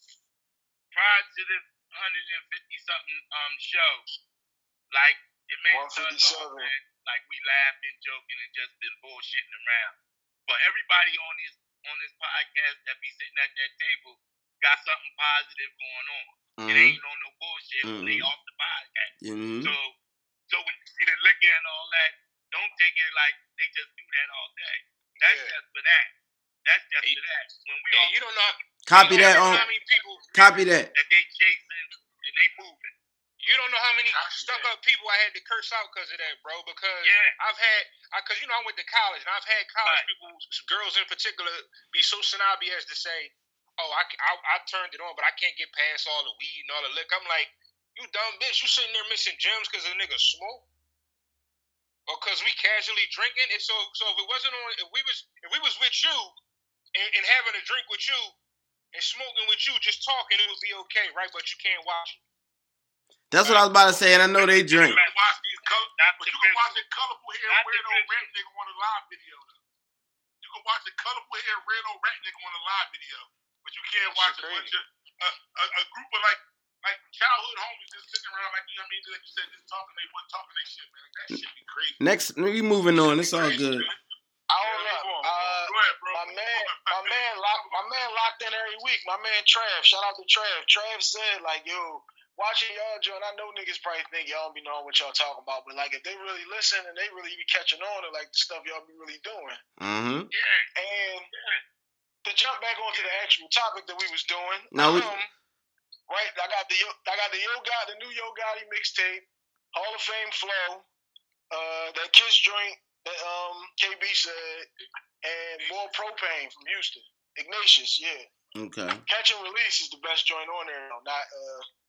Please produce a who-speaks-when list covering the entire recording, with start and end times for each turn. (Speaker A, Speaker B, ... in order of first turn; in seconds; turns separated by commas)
Speaker A: 0.9-4.2, Speaker A: 4.9-10.0, Speaker B: 5.7-6.7, Speaker A: 10.5-20.0, Speaker C: 16.6-17.0, Speaker C: 17.8-18.3, Speaker C: 19.2-19.7, Speaker A: 20.5-26.1, Speaker D: 25.2-25.6, Speaker A: 26.6-28.1, Speaker D: 27.9-30.5, Speaker C: 28.9-29.7, Speaker E: 29.5-30.4, Speaker C: 30.3-30.9, Speaker A: 30.9-32.9, Speaker D: 33.4-50.6, Speaker E: 34.1-34.7, Speaker A: 37.0-37.4, Speaker A: 39.8-40.1, Speaker D: 52.1-56.4, Speaker D: 56.9-58.4, Speaker D: 58.9-62.2, Speaker C: 63.3-65.0, Speaker D: 63.4-64.0, Speaker E: 64.7-69.6, Speaker A: 65.7-66.8, Speaker A: 67.5-68.3, Speaker E: 70.4-82.0, Speaker C: 82.0-83.9, Speaker E: 83.0-84.0, Speaker B: 84.5-99.6, Speaker E: 84.6-88.0, Speaker D: 84.7-85.1, Speaker C: 99.8-100.3, Speaker A: 100.4-100.7, Speaker B: 100.7-101.3, Speaker B: 102.2-105.3, Speaker C: 104.7-105.1, Speaker B: 106.1-110.9, Speaker B: 111.5-114.7, Speaker B: 115.2-118.3, Speaker E: 115.6-115.9, Speaker C: 118.6-119.0, Speaker B: 119.1-121.7